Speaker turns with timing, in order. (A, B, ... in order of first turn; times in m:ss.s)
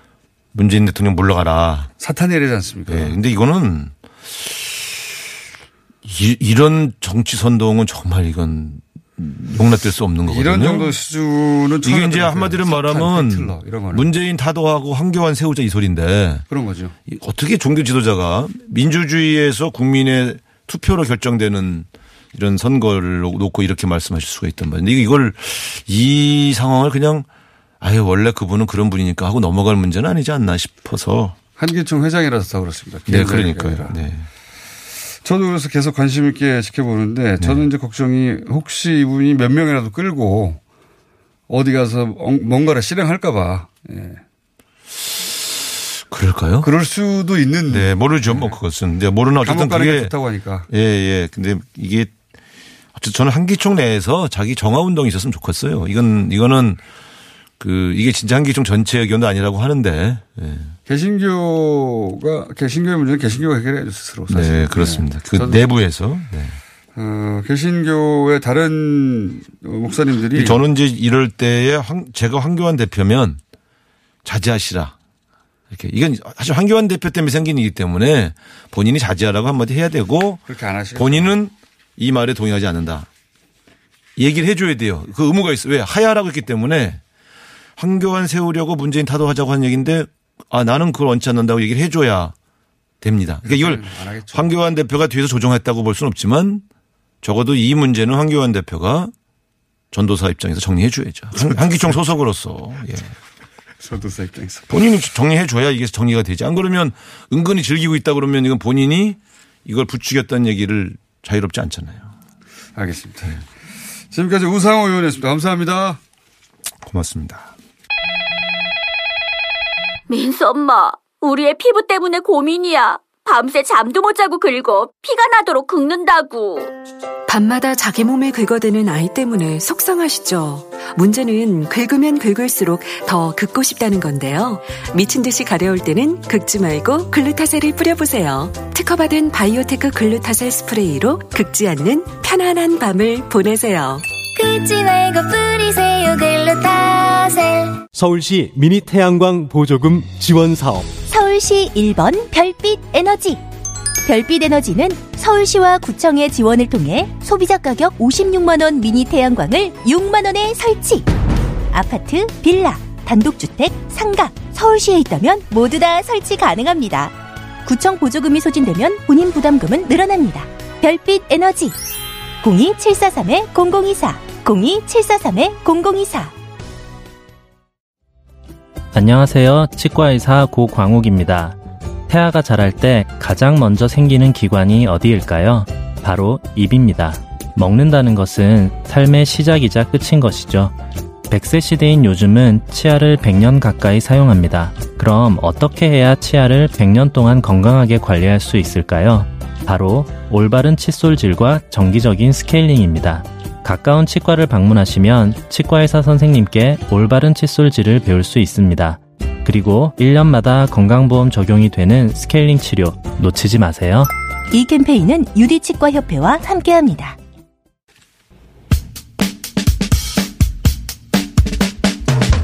0:00.5-0:01.9 A
0:02.0-0:03.2 B
0:02.9-0:04.8 A
0:06.0-0:10.9 A
0:10.3-0:14.1 B
0:11.8-0:16.4 A
0:16.5-0:17.0 B
0:17.1-0:27.3 A
0:27.8-0:31.4 A
0:31.6-0:34.0 B
0:33.1-0:34.3 A
0:35.2-0:40.6 B
0:41.5-0:44.2 B
0:46.1-0:46.7 A
0:46.6-0:48.6 B
0:47.7-0:50.1 A
0:49.4-0:50.7 B
0:50.7-0:52.1 A
0:53.0-0:56.8 A
0:57.6-1:00.7 A
1:00.9-1:05.6 B
1:04.3-1:06.6 A
1:07.0-1:10.6 B
1:10.4-1:13.4 A
1:14.2-1:15.0 A
1:15.7-1:23.1 A
1:20.5-1:21.4 B
1:24.2-1:27.0 A
1:27.8-1:32.3 A
1:33.0-1:36.6 A
1:33.4-1:34.5 B
1:37.2-1:39.1 A
1:39.9-1:43.2 A
1:43.8-1:44.7 B
1:44.7-1:52.1 A
1:52.8-1:53.4 B
1:54.1-1:56.0 B
1:56.9-1:57.5 A
2:00.1-2:06.7 C
2:07.3-2:24.1 D
2:24.4-2:27.8 E
2:27.9-2:30.9 F
2:31.1-2:33.4 G
2:34.1-2:41.1 G
2:41.7-2:51.8 G
2:52.4-2:56.3 G
2:58.9-3:01.6 H
3:02.1-3:10.8 H
3:11.3-3:34.1 H
3:34.5-3:37.2 G